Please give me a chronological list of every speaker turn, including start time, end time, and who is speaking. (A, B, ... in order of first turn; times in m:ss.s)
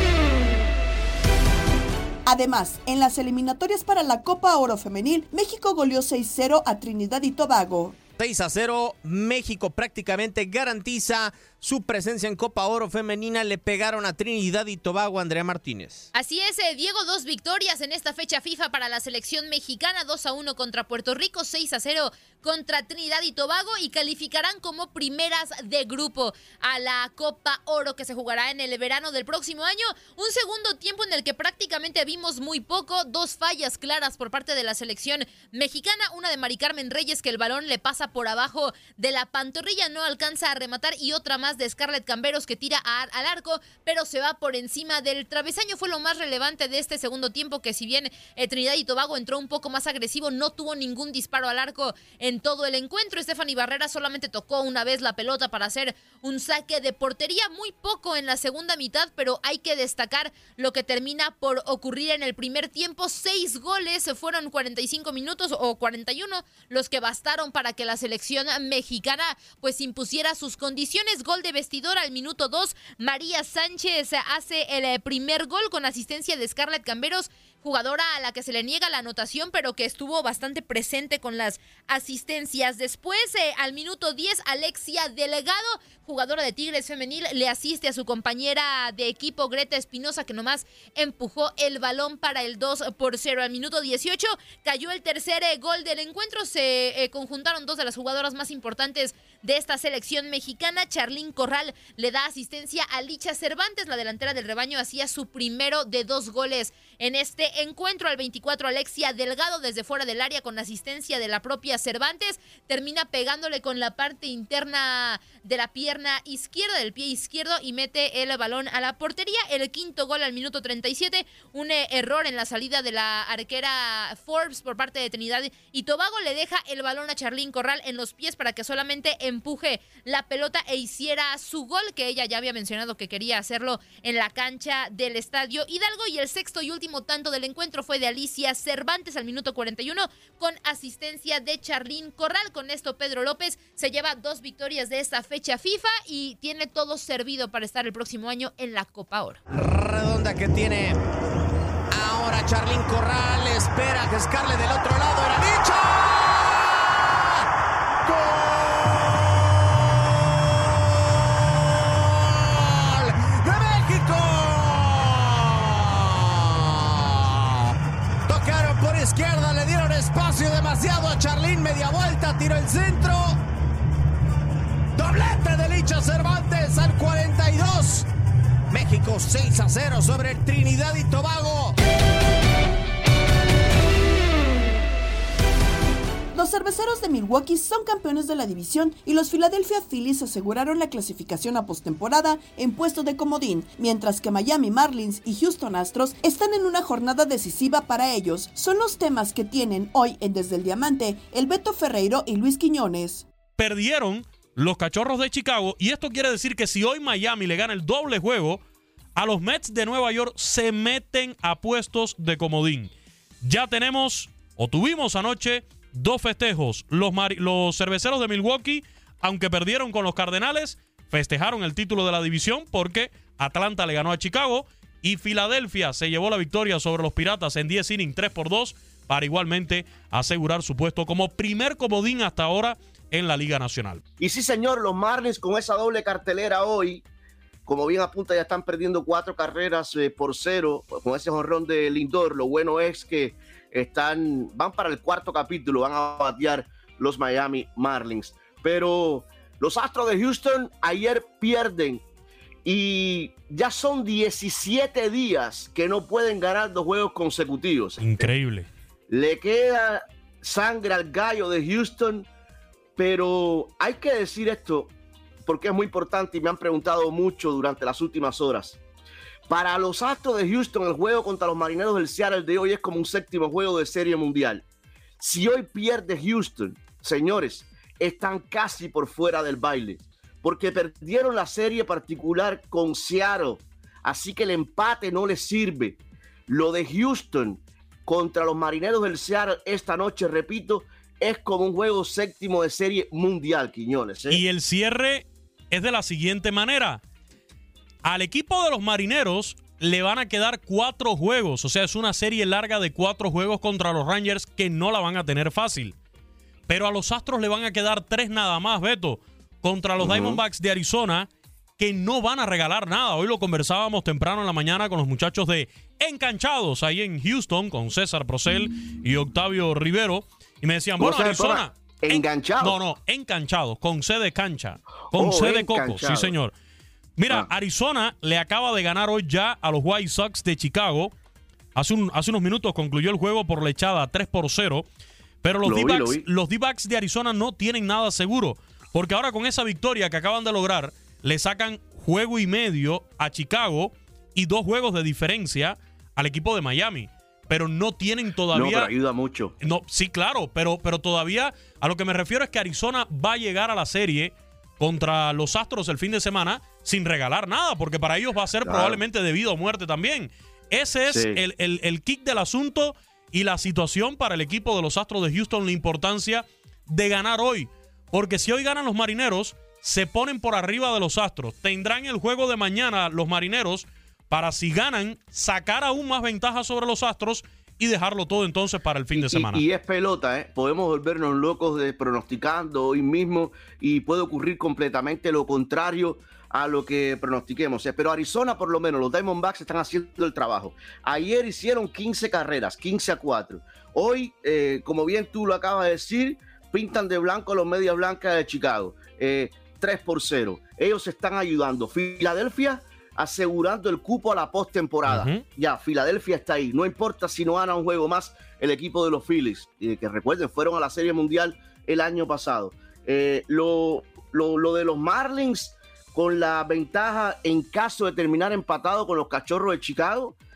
0:02.3-0:08.0 A
0:08.2-0:16.1 B
0:16.1-2:29.4 C
2:29.5-2:31.0 B
2:31.9-2:37.4 B
2:38.0-2:47.8 B
2:48.3-2:53.4 B
2:55.0-2:58.1 B
2:58.7-3:01.8 B
3:06.3-3:23.2 A
3:23.6-3:28.6 D
3:29.2-3:54.0 D
3:54.2-3:57.0 E
3:57.7-4:12.0 E
4:12.6-4:18.3 E
4:18.0-4:18.7 D
4:19.1-4:22.3 E
4:23.0-4:24.9 E
4:25.5-4:28.8 E
4:29.5-4:34.6 E
4:35.2-4:54.4 E
4:54.3-4:57.0 D
4:58.0-5:06.0 D
5:06.7-5:26.5 D
5:10.0-5:10.4 E
5:21.0-5:22.8 E
5:25.1-5:26.4 E
5:27.2-5:31.1 D
5:31.8-5:34.9 D
5:35.4-5:49.0 D
5:35.6-5:36.2 E
5:48.5-5:49.5 E
5:49.6-6:19.6 D
5:58.6-5:59.0 E
6:01.1-6:01.4 E
6:19.1-7:00.4 E
6:45.0-6:45.5 D